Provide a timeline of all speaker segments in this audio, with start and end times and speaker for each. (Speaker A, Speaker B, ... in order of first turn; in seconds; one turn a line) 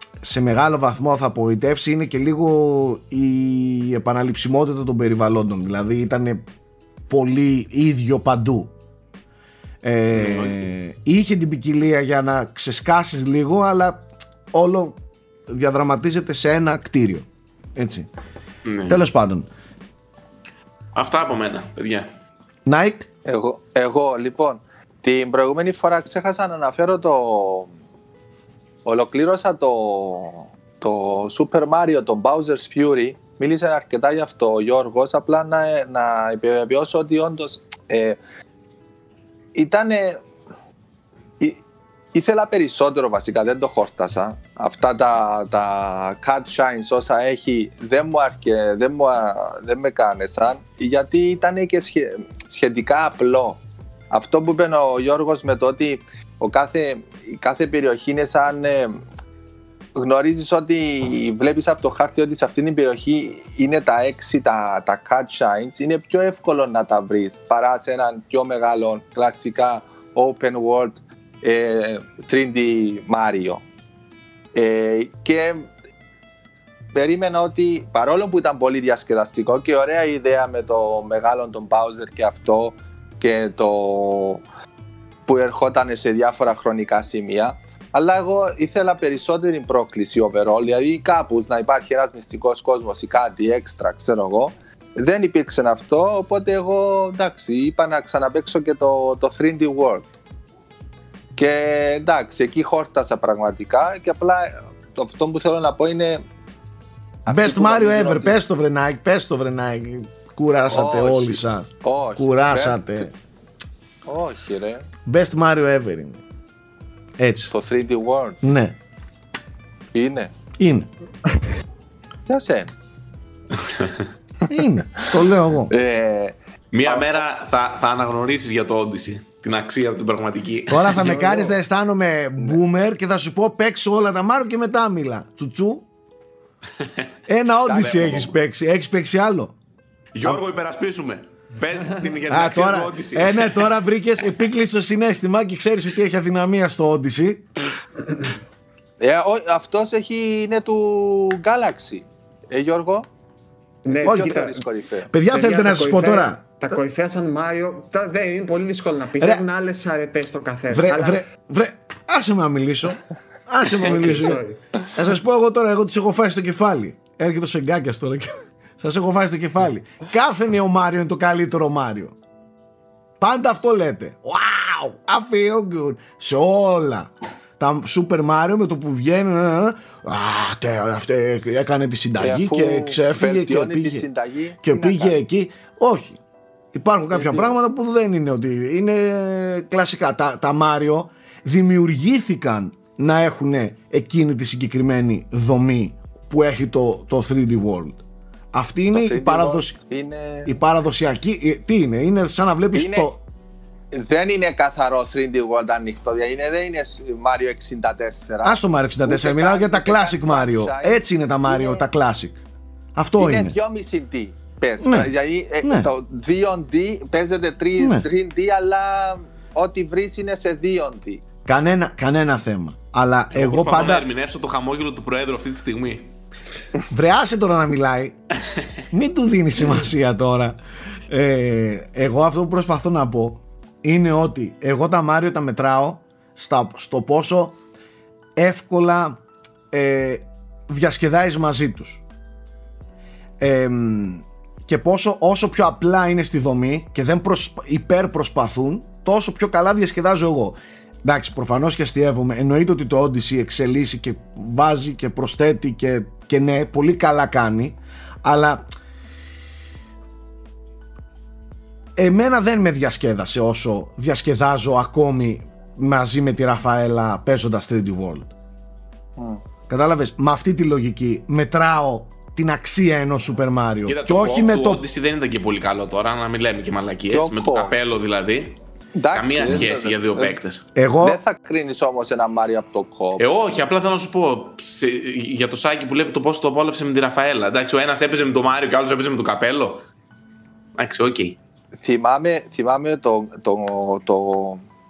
Speaker A: 0.2-6.4
Speaker A: 7.1-8.7
Speaker A: 9.8-18.1
Speaker B: 10.1-10.7
Speaker B: 18.6-19.0
Speaker A: 18.9-19.5
Speaker B: 20.9-22.1
Speaker A: 22.6-23.1
Speaker C: 23.2-27.7
Speaker C: 28.8-38.2
Speaker C: 39.5-40.2
Speaker C: 42.1-59.0
Speaker C: 59.9-73.6
Speaker C: 74.5-75.7
Speaker C: 76.9-84.4
Speaker C: 85.2-100.1
Speaker C: 101.3-106.2
Speaker C: 107.3-108.4
Speaker A: 107.3-113.1
Speaker C: 110.7-113.0
Speaker C: 114.0-114.8
Speaker A: 115.0-116.2
Speaker A: 117.2-117.5
Speaker C: 117.5-118.4
Speaker A: 118.4-118.8
Speaker C: 119.9-120.3
Speaker A: 120.6-120.9
Speaker C: 122.3-122.7
Speaker B: 123.6-124.0
Speaker A: 124.5-125.7
Speaker C: 125.7-126.3
Speaker B: 126.7-131.2
Speaker C: 126.8-127.2
Speaker A: 130.7-135.8
Speaker C: 131.0-131.5
Speaker A: 137.3-139.5
Speaker C: 137.6-138.3
Speaker B: 140.1-143.7
Speaker A: 142.3-147.4
Speaker C: 149.0-153.1
Speaker D: 153.8-154.6
Speaker C: 153.9-155.1
Speaker A: 154.0-154.3
Speaker A: 155.1-156.8
Speaker D: 155.3-161.2
Speaker A: 159.2-159.4
Speaker A: 160.7-164.4
Speaker D: 163.8-164.6
Speaker C: 163.9-164.3
Speaker A: 164.9-172.1
Speaker A: 173.2-184.0
Speaker C: 182.2-185.2
Speaker A: 184.6-186.2
Speaker A: 186.7-199.8
Speaker C: 187.1-187.5
Speaker C: 198.9-200.5
Speaker A: 200.4-203.2
Speaker C: 202.7-203.1
Speaker C: 203.9-211.8
Speaker A: 208.4-212.4
Speaker A: 212.9-213.6
Speaker C: 213.2-221.2
Speaker A: 214.8-215.1
Speaker A: 215.6-215.9
Speaker A: 217.8-218.1
Speaker A: 221.4-224.1
Speaker B: 223.3-226.1
Speaker A: 226.9-228.2
Speaker A: 228.9-230.6
Speaker A: 231.1-237.6
Speaker A: 238.3-239.2
Speaker A: 239.7-242.0
Speaker A: 243.4-258.6
Speaker A: 261.9-268.3
Speaker A: 269.7-274.8
Speaker B: 273.9-278.6
Speaker C: 277.1-277.8
Speaker C: 278.9-280.4
Speaker B: 279.1-280.6
Speaker A: 280.8-281.2
Speaker C: 281.0-283.2
Speaker B: 283.2-289.8
Speaker B: 290.8-291.4
Speaker C: 291.8-294.6